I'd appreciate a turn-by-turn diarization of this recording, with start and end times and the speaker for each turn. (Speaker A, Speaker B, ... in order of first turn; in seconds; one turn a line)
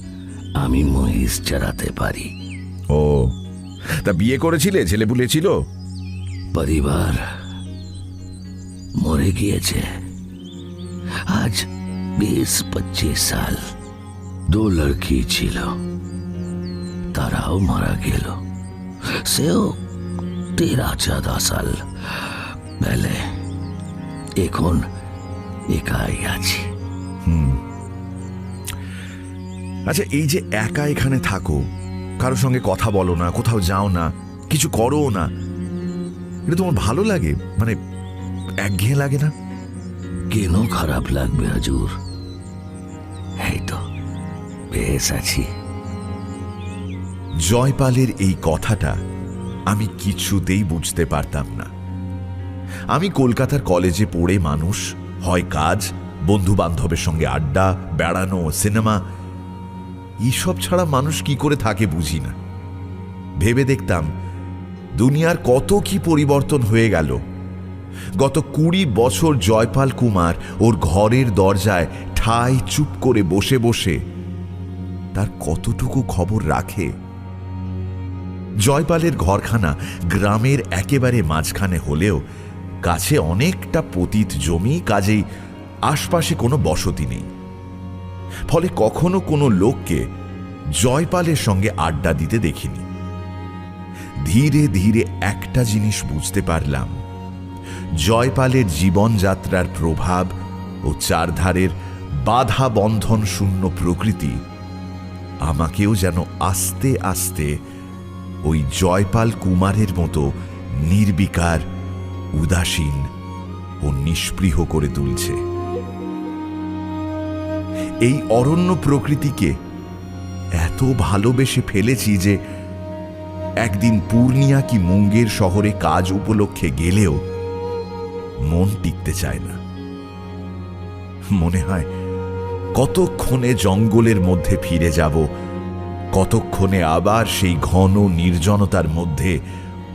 Speaker A: 0.6-2.3
Speaker B: 2.9-3.4
Speaker B: 4.0-5.5
Speaker A: 6.5-7.2
Speaker A: 9.0-9.8
Speaker A: 11.3-11.7
Speaker A: 12.2-13.6
Speaker A: 14.5-15.7
Speaker A: 17.1-18.4
Speaker A: 19.1-19.8
Speaker A: 20.6-23.2
Speaker A: 24.4-24.8
Speaker A: 25.7-26.6
Speaker B: 27.2-27.6
Speaker B: 29.9-31.6
Speaker B: 32.2-35.3
Speaker B: 36.5-37.8
Speaker B: 38.6-39.3
Speaker A: 40.3-41.9
Speaker A: 43.4-43.8
Speaker A: 44.7-45.5
Speaker B: 47.4-49.0
Speaker B: 49.7-51.7
Speaker B: 52.9-59.0
Speaker B: 60.2-62.4
Speaker B: 63.4-64.1
Speaker B: 65.0-67.2
Speaker B: 68.2-74.0
Speaker B: 75.1-76.9
Speaker B: 78.6-82.2
Speaker B: 82.8-85.2
Speaker B: 85.9-87.3
Speaker B: 88.5-90.0
Speaker B: 90.8-92.8
Speaker B: 94.2-96.9
Speaker B: 98.0-100.3
Speaker B: 100.9-101.7
Speaker B: 102.2-104.4
Speaker B: 105.5-107.5
Speaker B: 108.4-110.3
Speaker B: 110.8-111.6
Speaker B: 112.3-113.1
Speaker B: 113.8-115.4
Speaker B: 118.0-119.5
Speaker B: 120.6-122.4
Speaker B: 123.6-127.2
Speaker B: 128.4-129.6
Speaker B: 131.3-131.9
Speaker B: 132.8-135.3
Speaker B: 136.1-139.4